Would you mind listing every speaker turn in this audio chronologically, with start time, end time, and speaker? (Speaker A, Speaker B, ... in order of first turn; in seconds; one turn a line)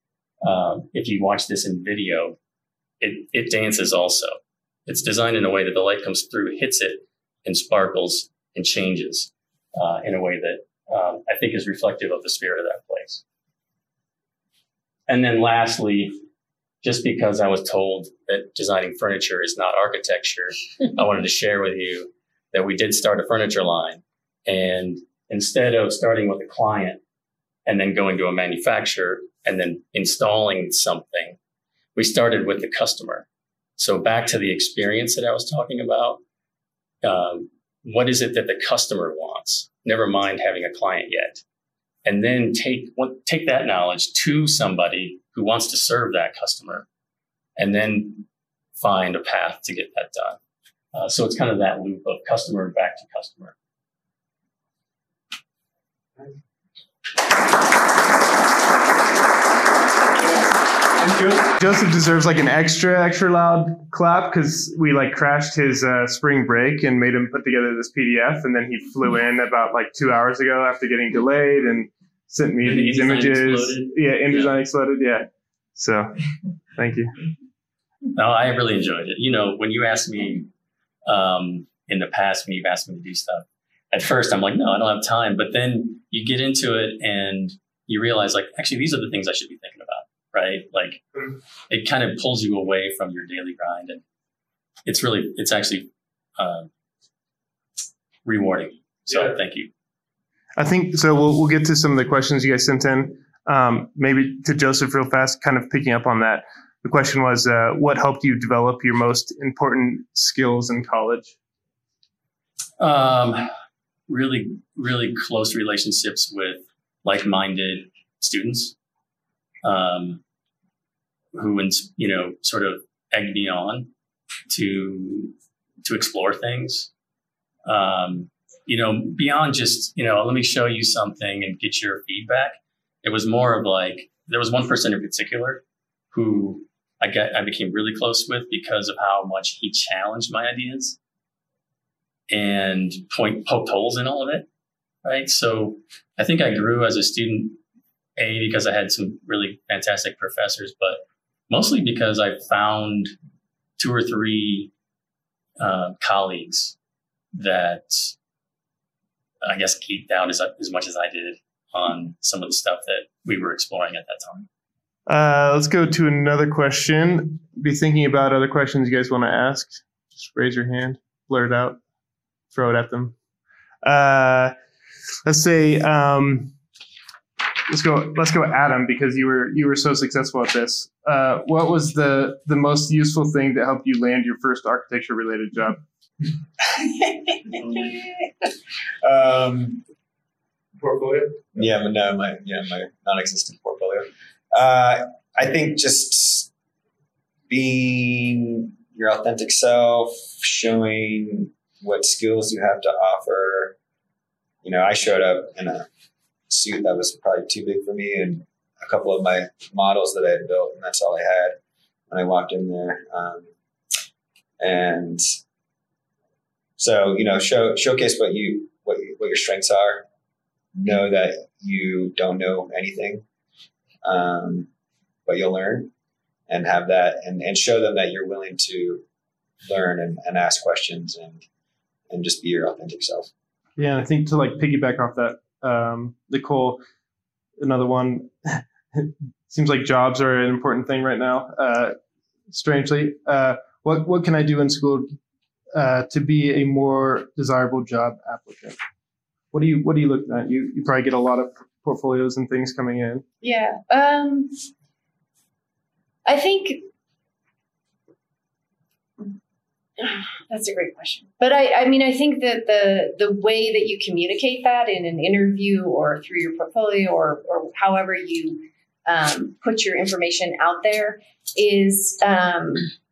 Speaker A: 0.4-2.4
Speaker A: 3.0-13.2
Speaker A: 15.1-16.2
Speaker A: 16.8-27.0
Speaker A: 27.7-31.4
Speaker A: 32.0-33.3
Speaker A: 33.8-36.2
Speaker A: 37.0-41.4
Speaker A: 42.0-46.9
Speaker A: 47.6-48.2
Speaker A: 48.8-50.4
Speaker A: 50.9-53.5
Speaker B: 61.0-76.2
Speaker A: 72.6-74.6
Speaker B: 76.8-77.1
Speaker A: 78.2-80.5
Speaker A: 81.0-91.0
Speaker A: 91.7-94.0
Speaker A: 94.8-96.7
Speaker A: 98.2-99.7
Speaker B: 100.6-111.3
Speaker A: 112.8-113.5
Speaker A: 114.1-118.8
Speaker A: 119.6-120.2
Speaker A: 121.3-123.9
Speaker A: 124.5-126.9
Speaker A: 127.7-141.0
Speaker A: 142.3-144.5
Speaker A: 145.0-147.6
Speaker A: 148.2-153.2
Speaker A: 153.8-154.7
Speaker A: 155.6-156.8
Speaker A: 157.3-158.1
Speaker A: 159.4-164.5
Speaker B: 165.1-171.8
Speaker B: 172.5-173.1
Speaker B: 173.8-174.5
Speaker B: 175.2-176.5
Speaker B: 177.7-185.8
Speaker C: 187.6-187.9
Speaker C: 189.0-189.8
Speaker B: 190.8-191.3
Speaker C: 191.6-196.5
Speaker C: 197.5-203.8
Speaker C: 204.6-205.9
Speaker C: 206.5-211.6
Speaker C: 212.1-213.5
Speaker C: 214.6-215.2
Speaker C: 216.8-220.1
Speaker C: 220.7-223.2
Speaker C: 224.0-224.7
Speaker C: 225.3-225.9
Speaker C: 226.5-229.0
Speaker C: 229.6-231.4
Speaker C: 232.1-233.3
Speaker B: 233.8-236.8
Speaker B: 237.6-242.0
Speaker B: 242.5-245.1
Speaker B: 245.7-248.8
Speaker B: 249.5-253.2
Speaker D: 253.4-254.5
Speaker D: 256.3-256.9
Speaker D: 260.0-272.9